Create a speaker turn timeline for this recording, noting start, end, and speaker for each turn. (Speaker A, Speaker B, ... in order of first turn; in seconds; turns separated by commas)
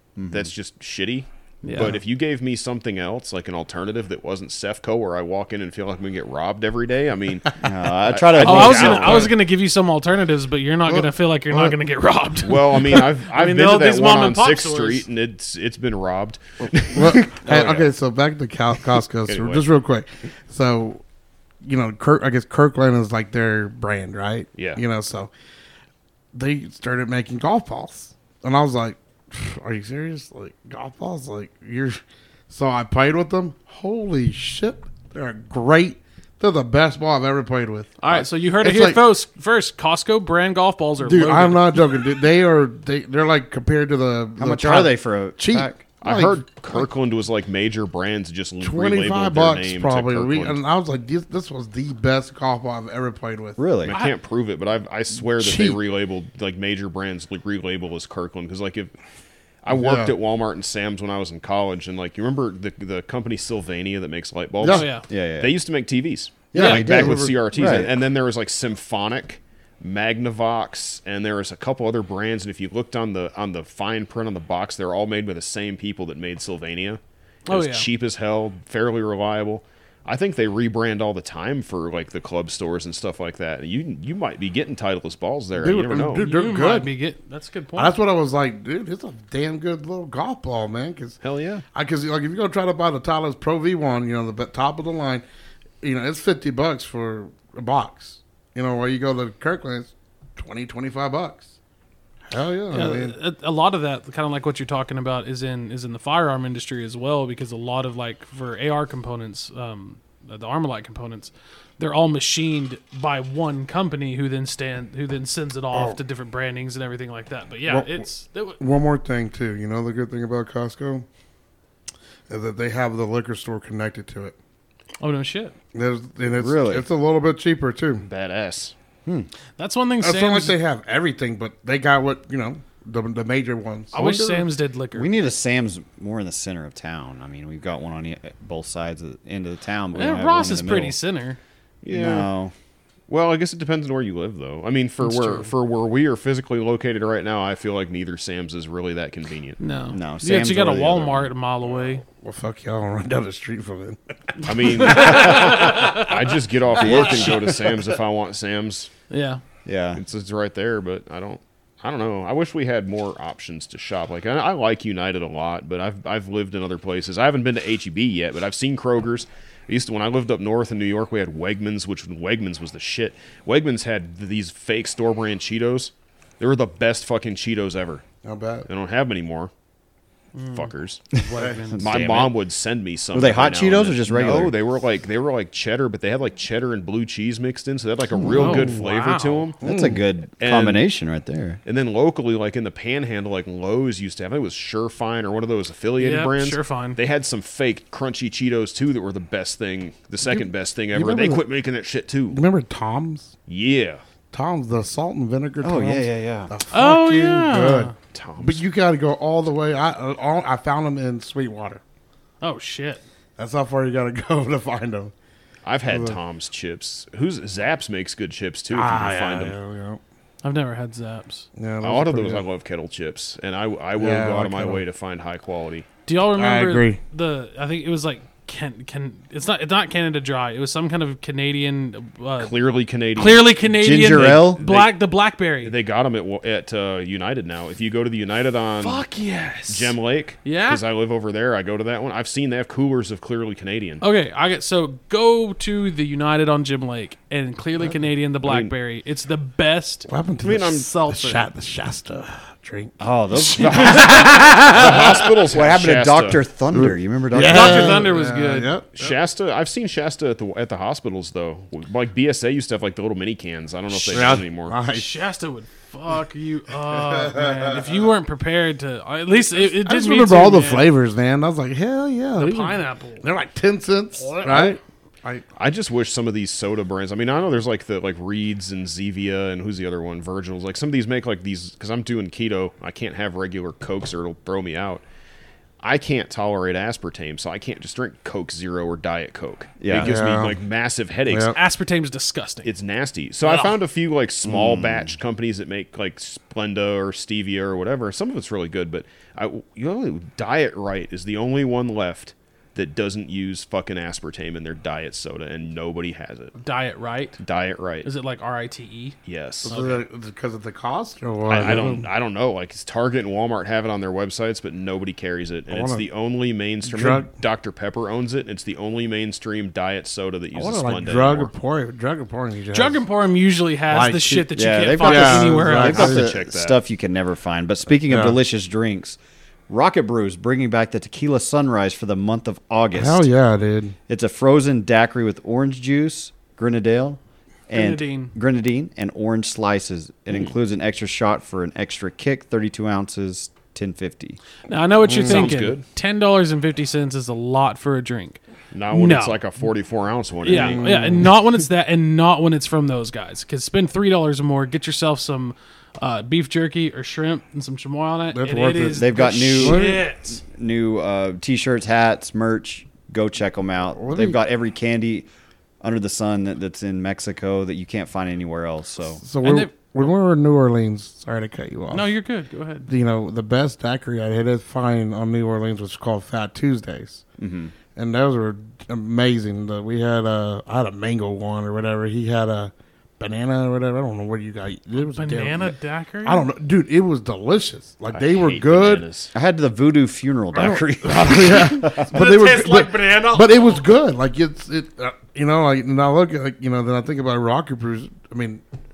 Speaker A: 0.2-0.5, Speaker B: 0.3-9.3, Speaker C: 1.6-1.9, Speaker A: 7.6-9.3, Speaker C: 8.4-15.0, Speaker D: 10.9-11.8, Speaker B: 12.4-17.9, Speaker D: 16.9-21.0, Speaker B: 19.3-19.6, Speaker D: 21.6-25.3, Speaker B: 24.5-24.8, Speaker D: 26.3-38.0, Speaker C: 38.0-41.6, Speaker D: 38.6-39.1, Speaker D: 41.0-46.9, Speaker A: 44.4-45.8, Speaker B: 46.0-50.6, Speaker D: 48.6-53.6, Speaker A: 53.6-54.0, Speaker B: 53.8-58.9, Speaker C: 53.9-54.2, Speaker D: 55.4-55.8, Speaker B: 59.6-86.3, Speaker D: 59.7-60.1, Speaker D: 64.6-64.9, Speaker C: 64.7-65.1, Speaker A: 65.1-65.5, Speaker D: 66.5-67.9, Speaker C: 66.5-66.8, Speaker A: 66.5-67.9, Speaker C: 77.5-77.9, Speaker D: 85.5-86.9, Speaker C: 86.2-88.0, Speaker D: 87.8-91.2, Speaker B: 91.2-91.6, Speaker D: 91.7-95.2, Speaker D: 95.8-101.5, Speaker D: 102.3-103.1, Speaker C: 102.7-118.6, Speaker D: 115.7-116.0, Speaker D: 117.7-118.0, Speaker D: 118.6-121.0, Speaker D: 122.3-124.3, Speaker C: 125.0-125.5, Speaker D: 125.7-128.0, Speaker A: 126.4-126.8, Speaker B: 128.0-128.7, Speaker C: 129.6-130.6, Speaker D: 130.0-133.9, Speaker B: 133.9-134.4, Speaker C: 133.9-135.1, Speaker A: 134.9-140.9, Speaker C: 139.9-141.4, Speaker B: 141.8-142.3, Speaker A: 141.9-142.5, Speaker B: 143.1-149.6, Speaker C: 145.0-145.5, Speaker C: 149.6-152.0, Speaker A: 149.9-151.3, Speaker D: 152.1-155.7, Speaker B: 154.4-158.9, Speaker C: 154.8-156.2, Speaker A: 156.8-157.5, Speaker D: 157.0-157.6, Speaker C: 159.1-159.4, Speaker A: 159.6-160.0, Speaker B: 159.9-178.0, Speaker D: 178.2-178.7, Speaker B: 178.7-179.5, Speaker C: 180.3-182.0, Speaker B: 180.5-181.1, Speaker A: 181.7-182.3, Speaker B: 181.8-189.6, Speaker A: 183.1-184.5, Speaker D: 188.2-188.7, Speaker C: 188.3-189.5, Speaker D: 189.6-190.0, Speaker A: 189.6-191.6, Speaker B: 190.4-190.8, Speaker B: 191.6-202.4, Speaker C: 196.0-197.0, Speaker D: 200.3-201.4, Speaker D: 202.3-203.3, Speaker B: 203.5-204.0, Speaker D: 204.3-211.8, Speaker A: 205.6-206.5, Speaker C: 206.7-207.9, Speaker B: 208.1-208.6, Speaker C: 212.4-213.0, Speaker D: 213.4-215.1, Speaker B: 215.6-219.6, Speaker D: 215.9-216.2, Speaker D: 218.7-220.0, Speaker C: 220.4-221.5, Speaker D: 221.6-222.4, Speaker B: 221.8-225.9, Speaker D: 224.0-224.8, Speaker C: 226.1-232.5, Speaker D: 226.3-227.0, Speaker B: 232.4-233.5, Speaker C: 233.2-235.7, Speaker A: 233.7-234.6, Speaker B: 234.1-234.9, Speaker B: 235.6-239.0, Speaker C: 238.8-240.8, Speaker B: 239.7-244.0, Speaker C: 244.0-250.1, Speaker B: 248.4-248.7, Speaker D: 250.1-255.2, Speaker B: 250.4-250.8, Speaker C: 250.6-251.4, Speaker A: 253.0-254.8, Speaker B: 253.6-256.4, Speaker A: 255.5-258.1, Speaker D: 256.7-258.9, Speaker C: 257.4-259.1, Speaker B: 258.9-264.8, Speaker D: 263.9-265.1, Speaker C: 264.9-270.9, Speaker D: 267.0-267.8, Speaker D: 269.5-275.4, Speaker C: 272.4-273.2, Speaker C: 274.2-274.8, Speaker B: 275.6-285.0, Speaker B: 285.8-291.5, Speaker A: 289.8-290.1, Speaker D: 290.0-290.6, Speaker D: 291.3-291.5, Speaker C: 291.5-292.7, Speaker B: 292.6-306.5, Speaker C: 293.4-293.7, Speaker A: 294.4-295.1, Speaker C: 306.6-307.4, Speaker B: 307.4-308.1, Speaker C: 308.0-310.0, Speaker B: 309.2-309.8, Speaker D: 309.6-312.1, Speaker B: 311.5-321.5, Speaker D: 315.7-316.0, Speaker D: 316.8-317.3, Speaker D: 320.5-323.0, Speaker C: 322.7-326.2, Speaker D: 323.9-326.2, Speaker A: 324.5-329.2, Speaker B: 325.9-326.8, Speaker D: 328.1-328.4, Speaker A: 329.7-333.3, Speaker D: 332.9-333.9, Speaker A: 334.1-344.4, Speaker C: 337.7-338.3, Speaker C: 344.7-348.4, Speaker D: 345.0-345.5, Speaker B: 345.2-345.8, Speaker B: 348.7-351.1, Speaker C: 348.9-349.4, Speaker C: 350.4-360.4, Speaker D: 350.5-351.3, Speaker D: 358.3-360.0, Speaker A: 358.9-365.3, Speaker D: 364.0-364.4, Speaker A: 365.8-369.2, Speaker D: 369.2-372.1, Speaker C: 369.4-369.7, Speaker C: 371.9-372.9, Speaker D: 372.9-377.2, Speaker A: 377.4-377.7, Speaker D: 377.9-389.0, Speaker C: 385.0-386.5, Speaker B: 388.1-389.3, Speaker A: 389.3-392.1, Speaker D: 390.5-398.6, Speaker C: 391.9-393.9